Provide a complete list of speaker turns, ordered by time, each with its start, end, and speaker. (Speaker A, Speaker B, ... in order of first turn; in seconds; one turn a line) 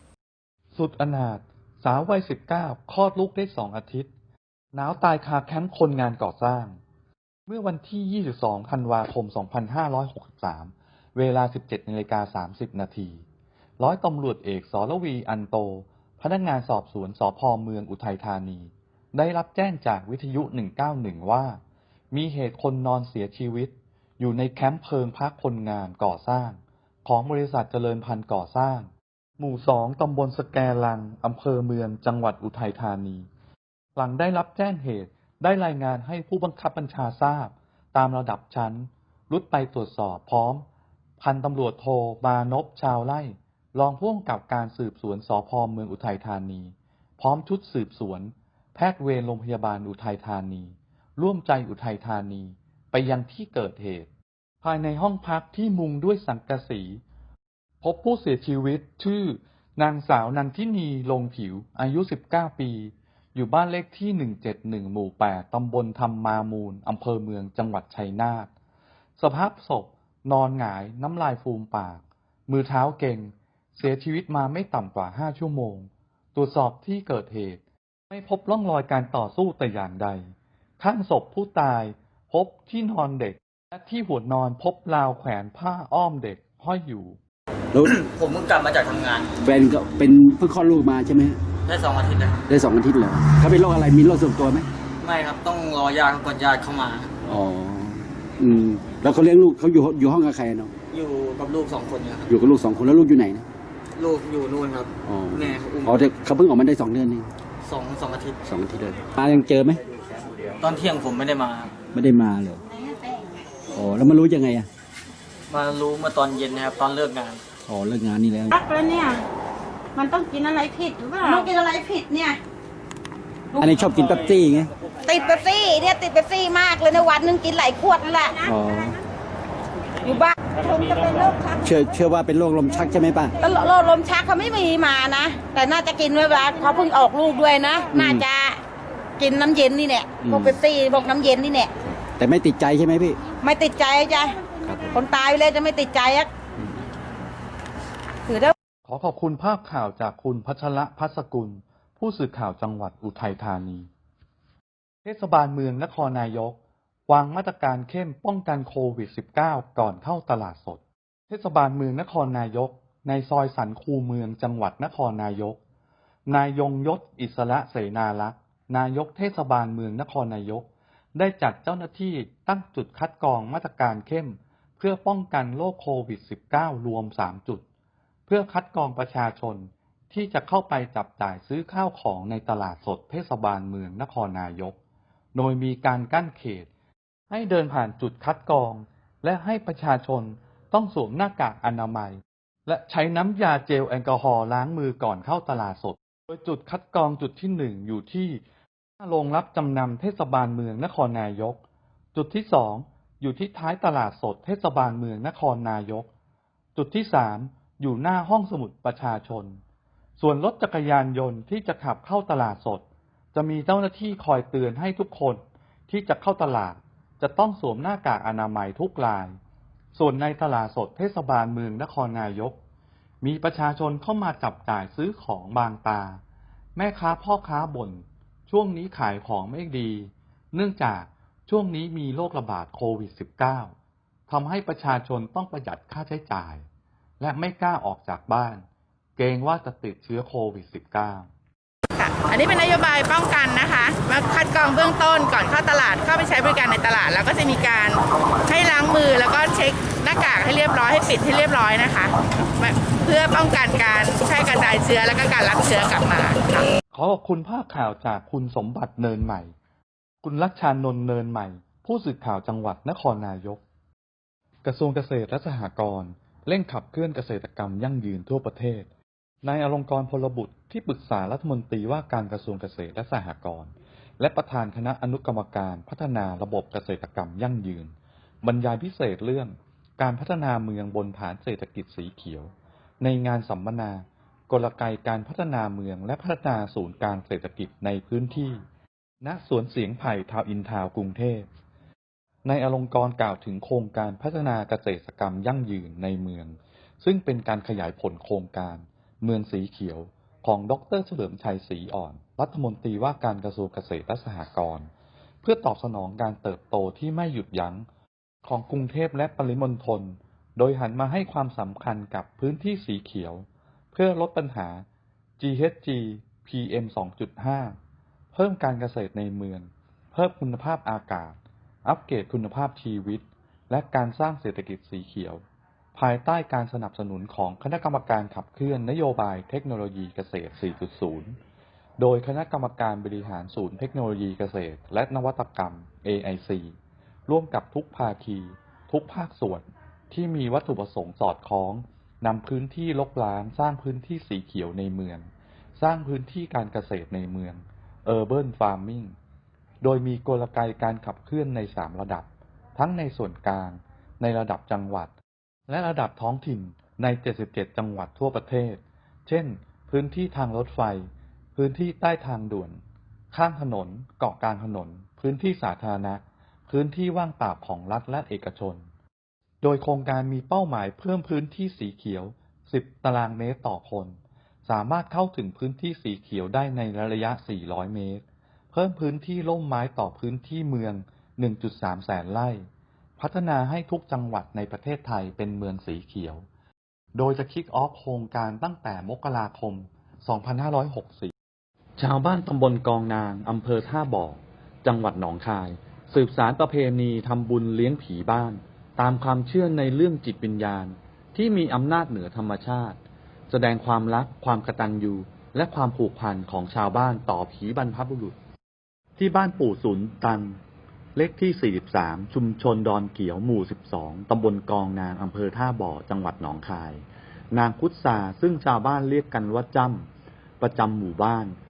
Speaker A: 0.8-4.1
Speaker A: 4.7-6.8
Speaker A: 7.5-13.2
Speaker A: 13.8-21.6
Speaker A: 22.1-33.3
Speaker A: 34.0-40.6
Speaker A: 41.2-54.1
Speaker A: 54.6-57.0
Speaker A: 57.8-68.5
Speaker A: 69.2-87.2
Speaker B: 87.7-88.0
Speaker C: 88.1-89.3
Speaker B: 89.4-91.4
Speaker C: 91.7-92.4
Speaker B: 92.5-94.7
Speaker C: 95.0-97.1
Speaker B: 97.3-100.7
Speaker C: 100.9-102.2
Speaker B: 102.3-103.5
Speaker C: 104.0-106.0
Speaker B: 105.0-107.3
Speaker C: 107.7-108.4
Speaker B: 108.4-109.8
Speaker C: 110.6-111.7
Speaker B: 111.9-112.6
Speaker D: 112.9-113.1
Speaker B: 113.7-114.7
Speaker C: 115.5-117.4
Speaker B: 117.7-118.6
Speaker D: 118.5-119.2
Speaker D: 120.0-122.4
Speaker B: 123.5-124.7
Speaker D: 125.0-128.4
Speaker B: 128.4-129.0
Speaker D: 130.0-131.5
Speaker B: 131.6-133.4
Speaker D: 133.4-138.6
Speaker B: 137.9-138.3
Speaker D: 139.2-141.7
Speaker B: 140.2-140.6
Speaker B: 141.8-143.2
Speaker D: 143.4-144.4
Speaker B: 144.6-145.0
Speaker D: 144.9-146.3
Speaker D: 148.3-148.5
Speaker A: 148.8-153.9
Speaker A: 155.0-165.6
Speaker A: 166.3-177.6
Speaker A: 178.3-184.8
Speaker A: 185.3-186.7
Speaker A: 187.3-198.4
Speaker A: 199.0-201.6
Speaker A: 202.1-206.1
Speaker A: 206.8-209.6
Speaker A: 210.2-219.3
Speaker A: 219.9-222.6
Speaker A: 223.2-226.2
Speaker A: 226.8-233.7
Speaker A: 234.3-236.7
Speaker A: 237.2-238.6
Speaker A: 239.2-241.3
Speaker E: 242.0-256.7
Speaker A: 256.9-259.5
Speaker A: 260.2-263.6
Speaker A: 264.6-268.9
Speaker A: 269.4-288.6
Speaker A: 289.2-291.5
Speaker A: 292.4-304.9
Speaker A: 305.4-307.9
Speaker A: 308.4-314.9
Speaker A: 315.4-317.8
Speaker A: 318.3-325.4
Speaker A: 325.9-331.4
Speaker A: 332.0-336.8
Speaker A: 337.3-349.1
Speaker A: 349.8-355.1
Speaker A: 355.7-362.8
Speaker A: 363.3-368.9
Speaker A: 369.6-382.7
Speaker A: 383.2-386.4
Speaker A: 387.1-391.3
Speaker A: 392.0-403.0
Speaker A: 403.5-408.4
Speaker A: 409.2-410.6
Speaker A: 411.2-420.1
Speaker A: 420.6-421.6